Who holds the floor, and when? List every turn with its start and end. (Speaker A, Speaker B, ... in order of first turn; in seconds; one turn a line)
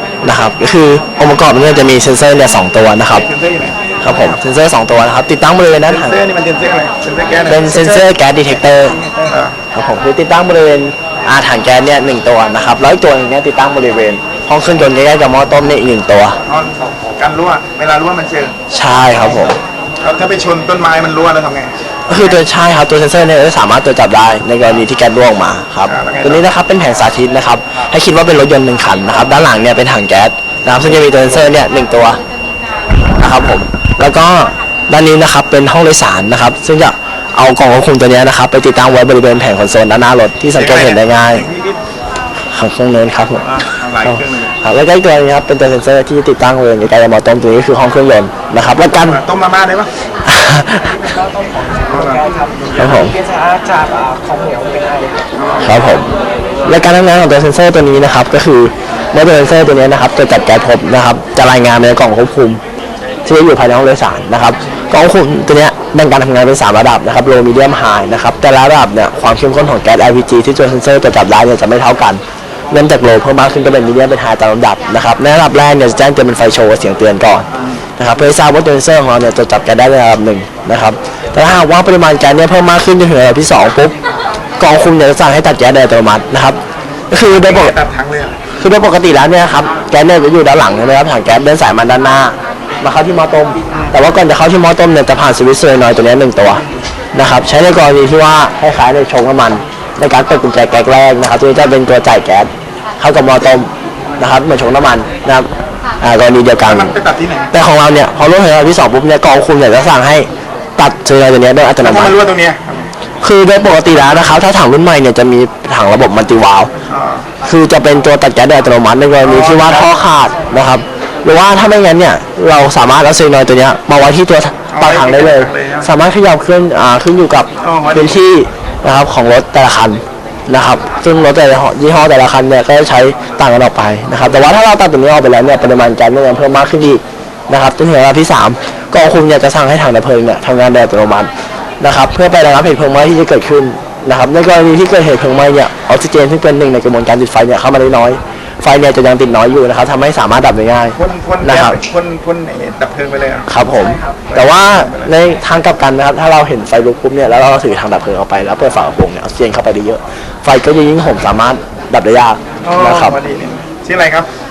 Speaker A: 0.2-3.3
Speaker B: 3.1-4.4
Speaker A: 4.0-6.2
Speaker B: 5.9-9.6
Speaker A: 7.5-9.0
Speaker A: 9.7-16.4
Speaker B: 16.4-18.6
Speaker A: 18.7-19.6
Speaker B: 19.3-21.7
Speaker A: 22.1-32.2
Speaker B: 25.8-26.5
Speaker B: 30.8-31.2
Speaker A: 33.2-41.5
Speaker B: 40.5-41.8
Speaker A: 42.5-49.2
Speaker B: 43.4-44.6
Speaker B: 48.8-49.9
Speaker A: 50.2-51.1
Speaker C: 51.0-55.3
Speaker B: 51.9-52.2
Speaker A: 52.7-53.2
Speaker B: 55.3-55.8
Speaker A: 55.6-56.1
Speaker A: 56.6-62.6
Speaker A: 63.2-83.9
Speaker A: 84.6-87.7
Speaker B: 87.3-88.4
Speaker A: 88.6-105.5
Speaker A: 106.0-106.9
Speaker B: 106.6-107.5
Speaker A: 107.5-112.2
Speaker B: 111.8-112.9
Speaker A: 113.2-116.7
Speaker B: 116.9-117.3
Speaker A: 117.5-151.8
Speaker B: 119.2-120.0
Speaker B: 124.7-125.9
Speaker B: 127.6-128.2
Speaker B: 150.9-153.5
Speaker A: 153.5-163.2
Speaker B: 154.3-155.1
Speaker B: 162.6-164.3